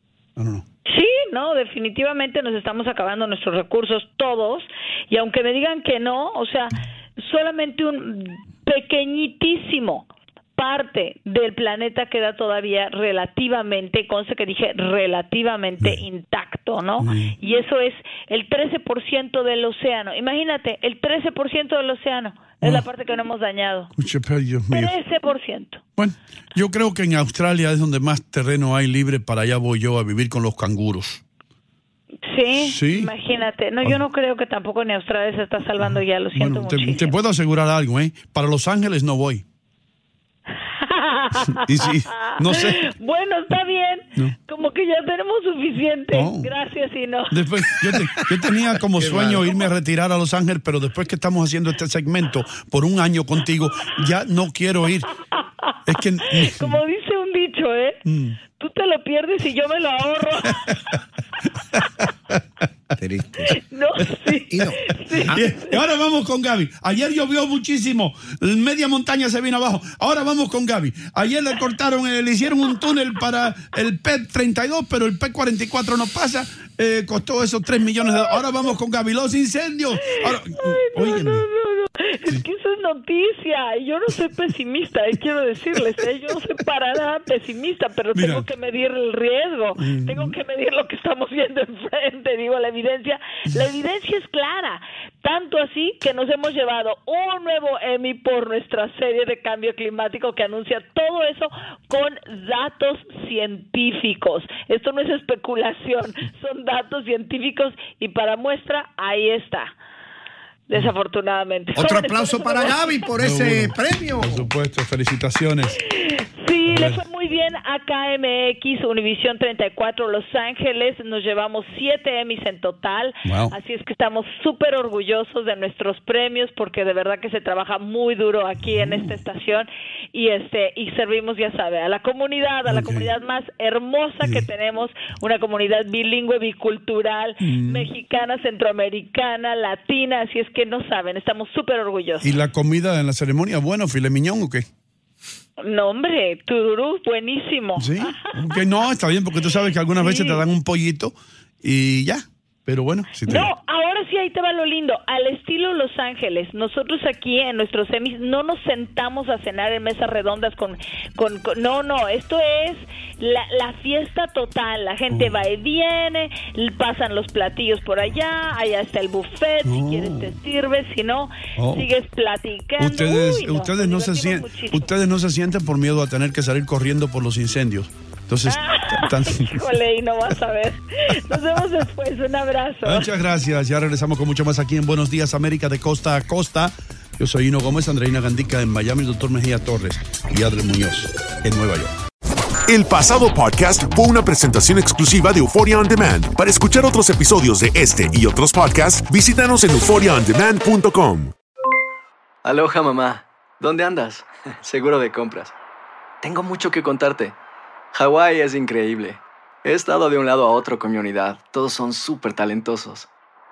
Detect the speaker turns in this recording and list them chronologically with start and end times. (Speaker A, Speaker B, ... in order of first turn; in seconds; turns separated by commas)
Speaker A: 0.3-0.7, Speaker B: 0.9-23.9, Speaker A: 15.8-16.1, Speaker A: 17.0-17.4, Speaker A: 22.6-22.9, Speaker A: 23.9-24.9, Speaker B: 24.7-25.8, Speaker A: 25.9-31.2, Speaker B: 32.3-37.1, Speaker A: 32.5-33.1, Speaker A: 35.8-39.4, Speaker B: 40.8-47.4, Speaker A: 41.4-42.8, Speaker A: 46.1-46.5, Speaker A: 47.3-55.1, Speaker C: 49.0-49.4, Speaker B: 55.3-55.7, Speaker A: 55.8-56.8, Speaker B: 56.4-58.0, Speaker A: 58.0-58.4, Speaker B: 58.5-60.7, Speaker C: 63.0-63.6, Speaker B: 63.5-65.7, Speaker C: 64.5-65.4, Speaker A: 65.3-81.5, Speaker B: 80.0-109.7, Speaker A: 88.1-88.5, Speaker A: 89.8-90.3, Speaker B: 110.7-112.9, Speaker C: 111.8-114.5, Speaker A: 113.2-115.8, Speaker B: 115.9-142.3, Speaker A: 116.7-117.0, Speaker A: 123.2-123.5, Speaker A: 132.7-133.1, Speaker A: 137.4-137.9, Speaker A: 142.2-144.7, Speaker B: 145.6-148.3, Speaker A: 147.7-153.5, Speaker B: 150.0-150.4, Speaker B: 153.2-174.9, Speaker A: 169.6-170.3, Speaker A: 171.6-171.9, Speaker A: 172.8-179.6, Speaker B: 178.4-183.1, Speaker A: 182.8-191.9, Speaker D: 192.7-201.3, Speaker E: 202.4-205.5, Speaker E: 206.2-207.3, Speaker E: 207.9-213.1